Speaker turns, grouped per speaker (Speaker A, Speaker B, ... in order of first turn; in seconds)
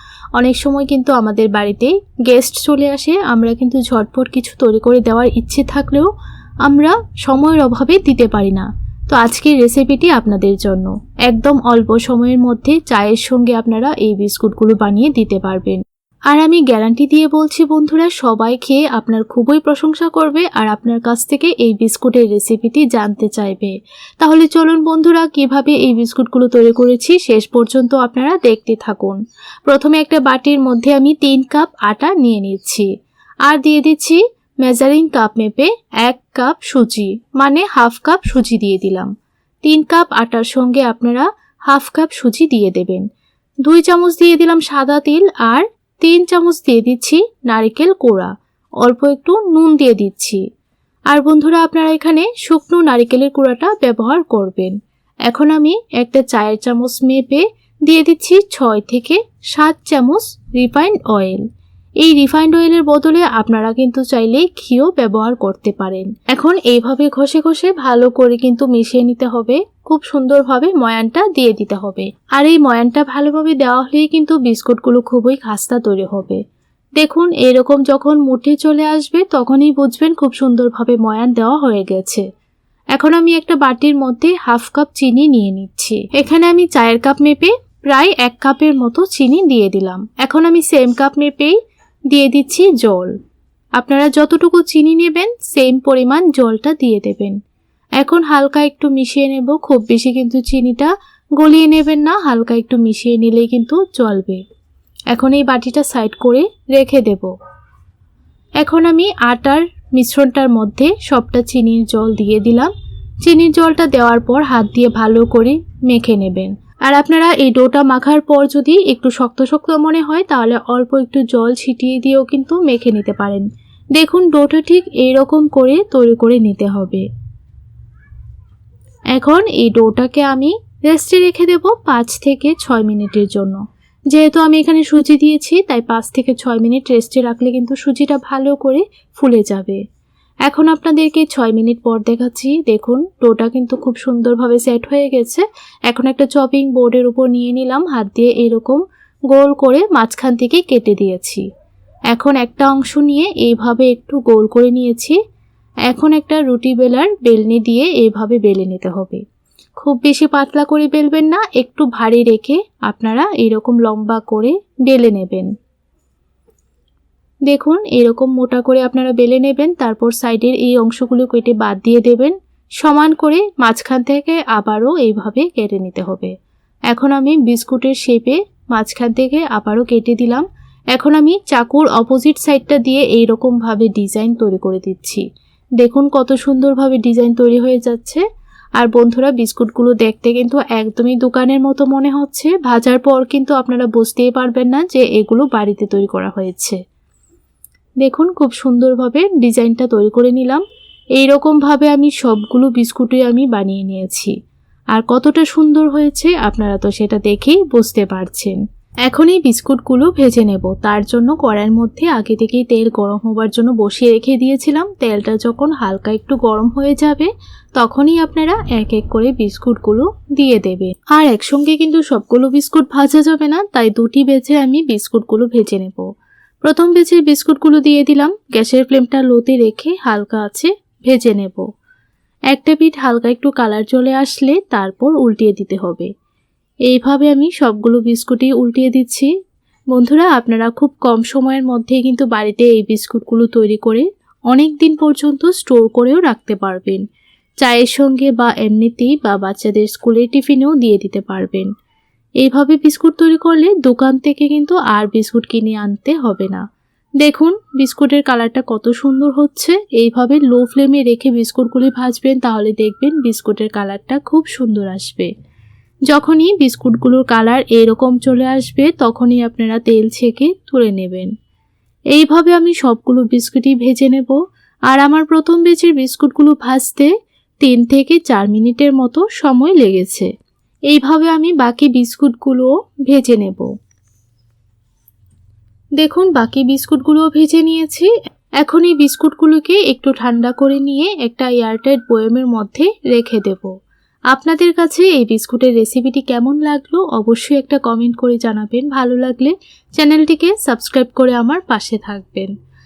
Speaker A: 0.4-6.1, 6.7-32.9, 33.5-39.1, 39.6-43.0, 43.6-50.4, 51.1-54.7, 55.3-61.4, 62.0-76.4, 77.0-82.2, 83.0-91.6, 92.1-93.1, 93.8-97.4, 98.0-104.4, 105.1-107.3, 108.6-112.7, 113.2-123.5, 124.0-127.0, 129.2-133.6, 134.1-139.8, 140.5-151.4, 152.1-155.2, 155.9-159.2, 159.8-165.5, 167.5-176.3, 176.9-185.2, 185.8-188.2, 188.8-196.8, 198.0-200.6, 201.2-204.3, 204.9-226.1, 226.6-231.7, 232.5-236.1, 236.9-239.3, 239.9-247.0, 247.6-251.7, 252.4-256.6, 257.2-265.3, 266.1-271.3, 272.1-277.1, 277.6-280.3, 280.9-283.7, 286.0-288.1, 288.6-293.7, 294.3-302.5